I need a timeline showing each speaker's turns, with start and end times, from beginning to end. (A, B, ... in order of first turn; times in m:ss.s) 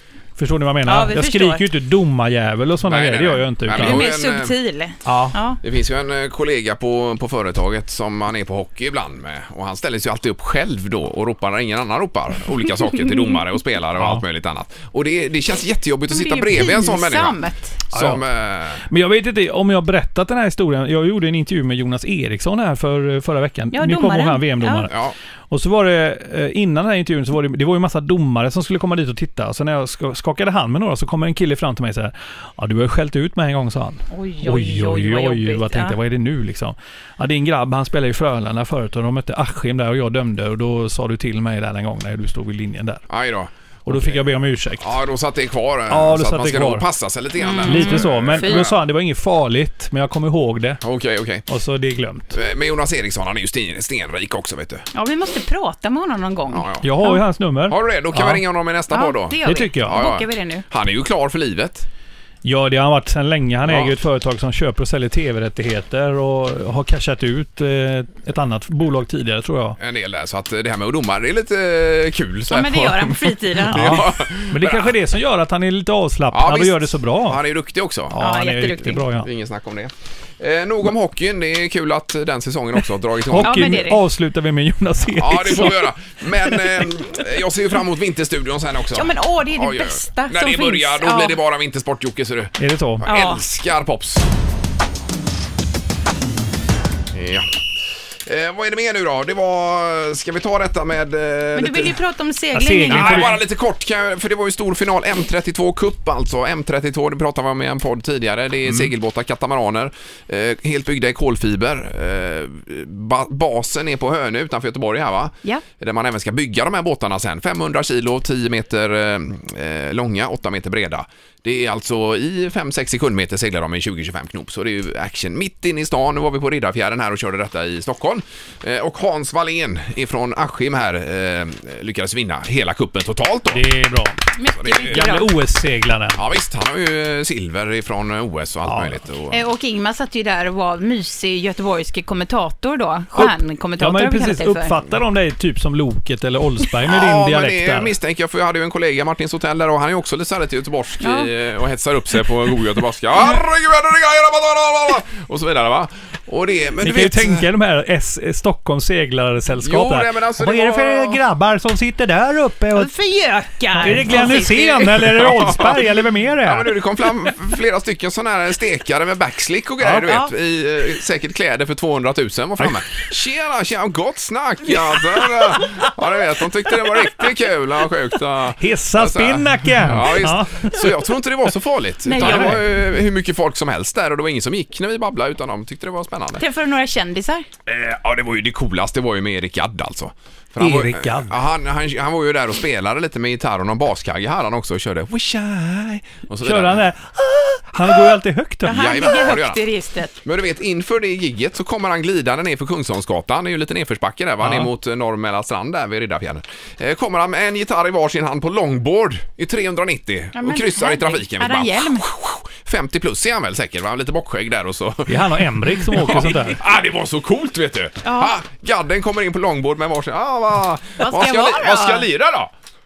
0:00.4-0:04.1 A
0:00.9-0:01.7 B
0:02.8-0:04.6 C
0:03.7-0:05.6 B
0:05.0-0:05.4 A
0:05.6-0:18.9 C
0:14.0-0:14.2 A
0:16.1-0:17.8 B
0:17.9-0:18.2 A
0:18.8-0:25.0 A
0:23.7-0:24.9 B
0:24.9-0:25.2 C
0:25.5-0:43.0 A
0:34.1-0:36.0 B
0:43.1-0:44.2 C
0:43.9-0:44.9 A
0:44.8-0:48.8 C
0:45.9-0:46.9 A
0:47.4-0:48.7 B
0:47.7-0:50.8 A
0:50.8-0:51.4 C
0:51.5-0:52.3 A
0:52.3-0:54.9 C
0:54.9-0:57.2 B
0:56.5-0:56.8 C
0:56.8-0:58.4 A
0:57.7-1:01.9 C
0:58.9-1:00.6 B
0:59.4-1:00.0 A
1:02.4-1:09.8 A
1:03.7-1:04.0 C
1:09.8-1:14.9 C
1:12.5-1:14.1 B
1:13.7-1:17.4 A
1:16.3-1:18.2 C
1:18.1-1:19.3 A
1:18.2-1:19.0 B
1:19.2-1:23.8 C
1:23.3-1:25.8 A
1:23.4-1:24.0 B
1:25.2-1:34.3 C
1:28.9-1:31.4 B
1:32.6-1:33.1 A
1:33.0-1:33.4 B
1:37.1-1:37.6 C
1:38.2-1:42.0 C
1:41.6-1:43.4 B
1:42.5-1:43.3 A
1:42.9-2:13.6 C
2:13.5-2:14.2 A
2:14.4-2:15.3 B
2:14.6-2:15.2 C
2:14.9-2:16.2 A
2:16.2-2:19.4 C
2:18.7-2:19.0 A
2:19.3-2:24.8 B
2:23.1-2:27.9 A
2:26.9-2:37.5 C
2:31.0-2:31.3 B
2:36.8-2:42.9 A
2:39.6-2:41.2 C
2:42.7-2:45.1 B
2:43.8-2:46.7 A
2:45.0-2:45.8 C
2:46.4-3:06.4 C
2:49.8-2:50.1 A
2:58.6-3:00.9 A
3:02.0-3:02.6 B
3:02.2-3:02.6 A
3:06.4-3:07.5 B
3:07.7-3:16.9 C
3:10.6-3:11.4 A
3:16.4-3:19.0 A
3:18.6-3:20.2 B
3:18.7-3:19.7 C
3:20.2-3:42.5 C
3:24.4-3:24.7 A
3:30.4-3:32.1 B
3:35.1-3:36.6 A
3:38.0-3:38.3 B
3:41.0-3:42.1 B